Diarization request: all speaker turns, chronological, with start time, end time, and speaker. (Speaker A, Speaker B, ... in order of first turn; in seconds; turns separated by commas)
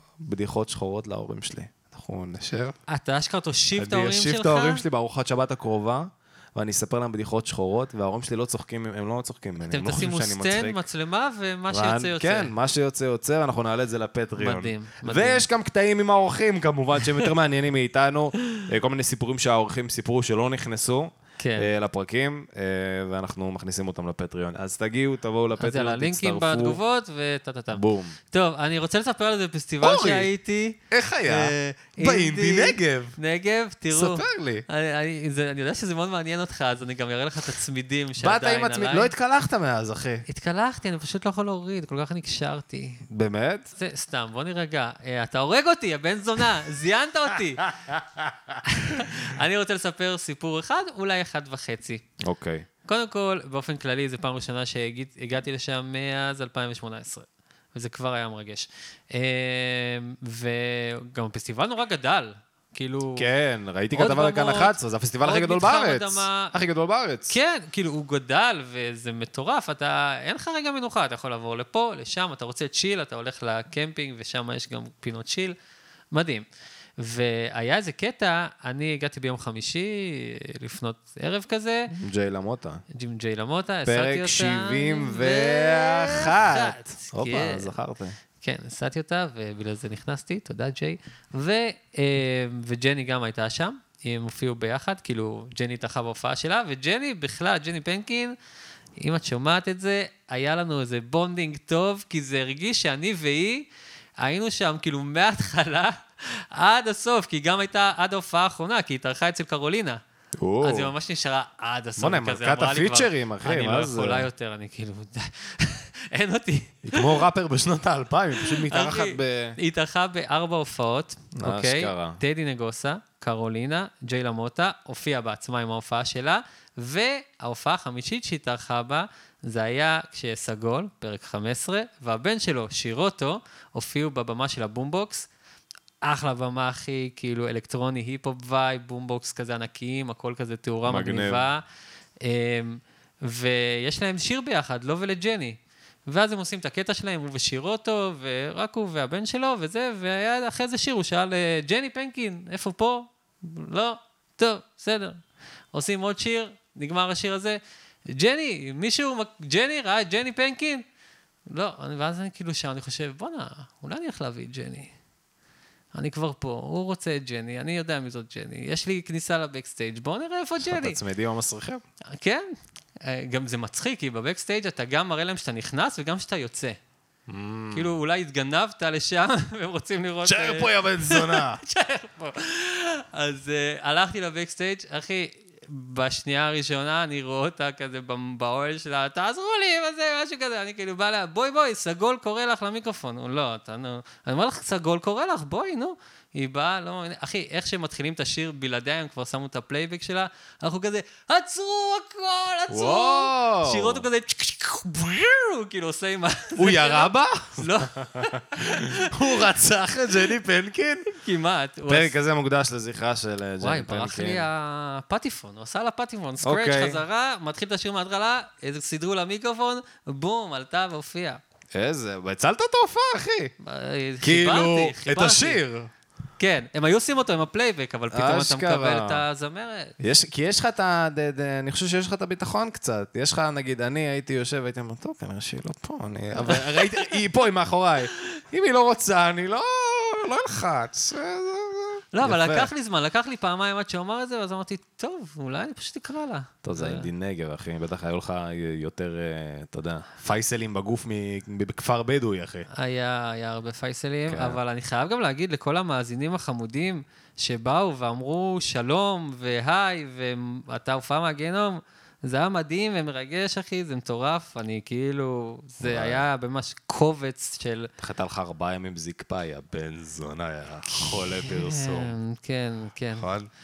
Speaker A: 0.2-2.8, Speaker B: 2.9-4.8, Speaker A: 3.8-10.8, Speaker B: 9.7-12.5, Speaker A: 11.7-26.8, Speaker B: 14.4-15.4, Speaker B: 21.4-21.7, Speaker B: 25.6-39.1, Speaker A: 27.7-28.1, Speaker A: 29.8-30.3, Speaker A: 30.9-33.1, Speaker A: 33.9-34.6, Speaker A: 38.2-40.2, Speaker B: 40.3-43.0, Speaker A: 43.1-43.7, Speaker B: 43.8-47.7, Speaker A: 47.9-48.6, Speaker B: 48.6-52.0, Speaker A: 52.2-52.6, Speaker B: 52.8-63.3, Speaker A: 63.1-67.3, Speaker B: 63.9-66.5, Speaker B: 67.3-75.5, Speaker B: 76.1-76.4, Speaker B: 77.0-82.0, Speaker A: 82.0-82.8, Speaker B: 82.9-87.7, Speaker A: 83.9-88.2, Speaker B: 88.4-98.3, Speaker B: 99.0-103.6, Speaker B: 104.2-110.0, Speaker A: 110.4-110.9, Speaker B: 110.6-117.2, Speaker A: 112.0-114.3, Speaker A: 116.9-119.6, Speaker B: 118.4-135.3, Speaker A: 121.4-122.2, Speaker B: 136.0-141.6, Speaker A: 140.8-141.5, Speaker B: 142.2-155.2, Speaker B: 155.7-157.6, Speaker B: 158.1-160.8, Speaker B: 161.5-164.9, Speaker B: 165.9-171.0, Speaker A: 170.6-171.8, Speaker B: 172.2-172.5, Speaker B: 173.0-176.8, Speaker A: 177.3-177.9, Speaker B: 177.7-209.4, Speaker A: 180.2-181.6, Speaker A: 202.7-204.1, Speaker A: 206.6-211.1, Speaker B: 211.1-212.1, Speaker A: 211.9-214.5, Speaker B: 213.6-221.4, Speaker A: 216.4-217.0, Speaker A: 221.7-223.5, Speaker B: 223.6-225.6, Speaker A: 224.2-225.9, Speaker B: 226.4-229.9, Speaker A: 228.1-229.2, Speaker A: 230.0-242.7, Speaker B: 236.4-237.0, Speaker B: 242.1-247.1, Speaker A: 246.6-252.7, Speaker B: 252.7-267.9, Speaker A: 254.3-254.6, Speaker A: 265.8-266.2, Speaker A: 268.0-272.1, Speaker B: 270.9-273.3, Speaker A: 273.2-273.5